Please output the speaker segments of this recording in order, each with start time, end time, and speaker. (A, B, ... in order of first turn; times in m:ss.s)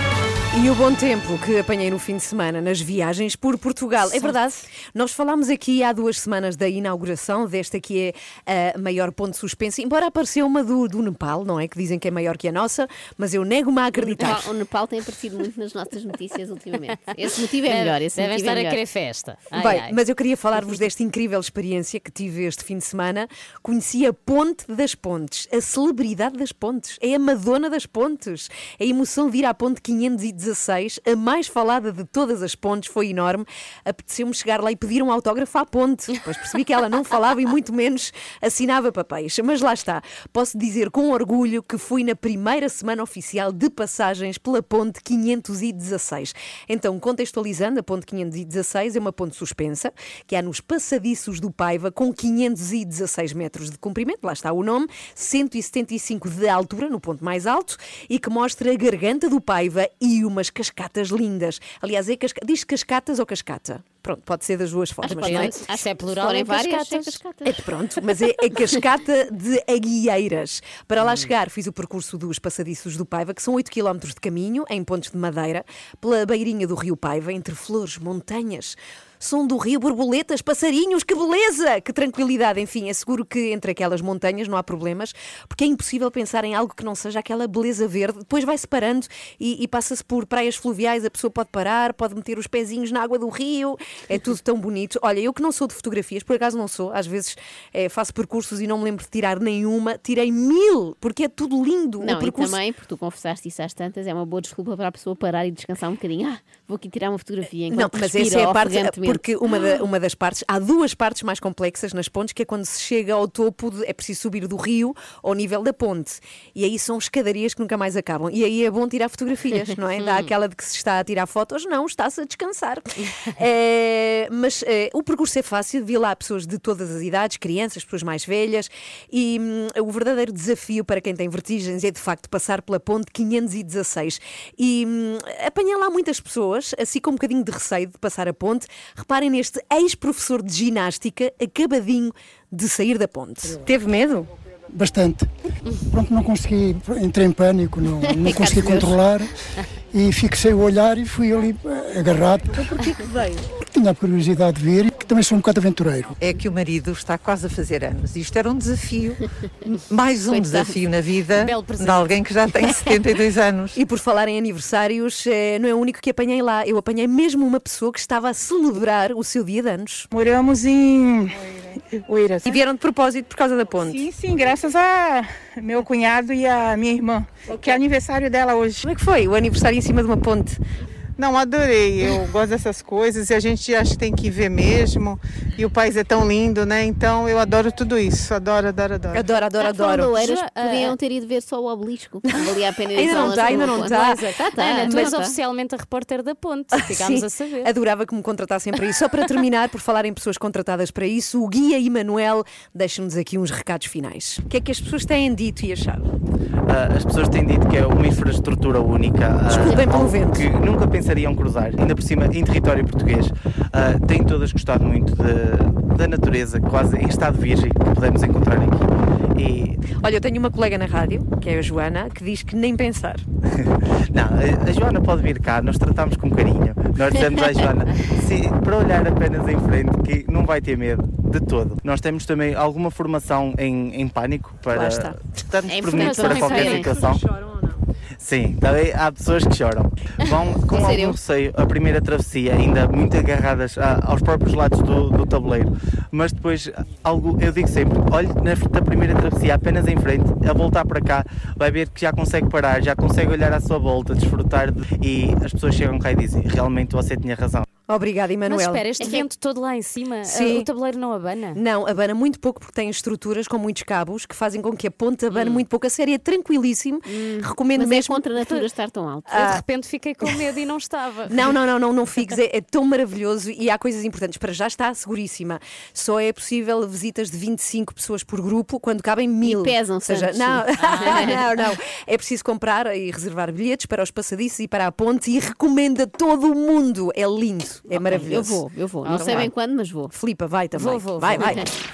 0:00.5-0:14.4 A
0:14.0-0:18.8 B
0:17.7-0:19.9 C
0:19.5-1:05.5 A
1:05.0-1:07.6 B
1:05.1-1:07.2 C
1:07.5-1:42.6 A
1:42.0-1:49.3 B
1:47.7-2:23.6 A
2:00.0-2:00.3 C
2:03.0-2:03.3 C
2:24.7-2:25.3 D
2:25.9-2:29.3 D
2:28.1-2:29.0 B
2:29.9-2:32.9 D
2:33.6-2:36.2 D
2:36.2-2:43.8 E
2:40.3-2:40.7 B
2:41.4-2:42.1 C
2:43.8-2:50.1 A
2:50.1-2:52.6 F
2:52.5-2:54.0 A
2:53.8-2:58.9 F
2:58.8-3:00.6 A
3:01.2-3:09.3 F
3:09.1-3:10.1 A
3:09.6-3:15.4 B
3:10.1-3:10.9 C
3:13.0-3:14.2 A
3:13.1-3:17.7 C
3:14.8-3:15.1 A
3:16.8-3:26.1 A
3:26.7-3:39.8 G
3:29.5-3:30.5 A
3:39.9-3:43.2 A
3:43.6-3:57.2 G
3:54.7-3:55.2 A
3:55.7-3:57.0 B
3:55.9-3:56.9 C
3:56.5-3:57.8 A
3:58.2-4:17.7 G
4:00.7-4:01.1 B
4:17.9-4:19.2 A
4:18.5-4:21.6 C
4:20.3-4:20.7 A
4:21.6-4:28.2 A
4:25.3-4:25.6 C
4:27.1-4:29.6 B
4:28.4-4:28.6 C
4:29.3-4:31.5 C
4:31.3-4:48.6 A
4:39.4-4:41.4 B
4:40.8-4:41.4 C
4:47.9-4:50.1 B
4:49.0-4:49.5 C
4:49.1-4:49.5 A
4:50.1-4:51.6 A
4:50.8-4:51.6 C
4:51.4-4:51.6 B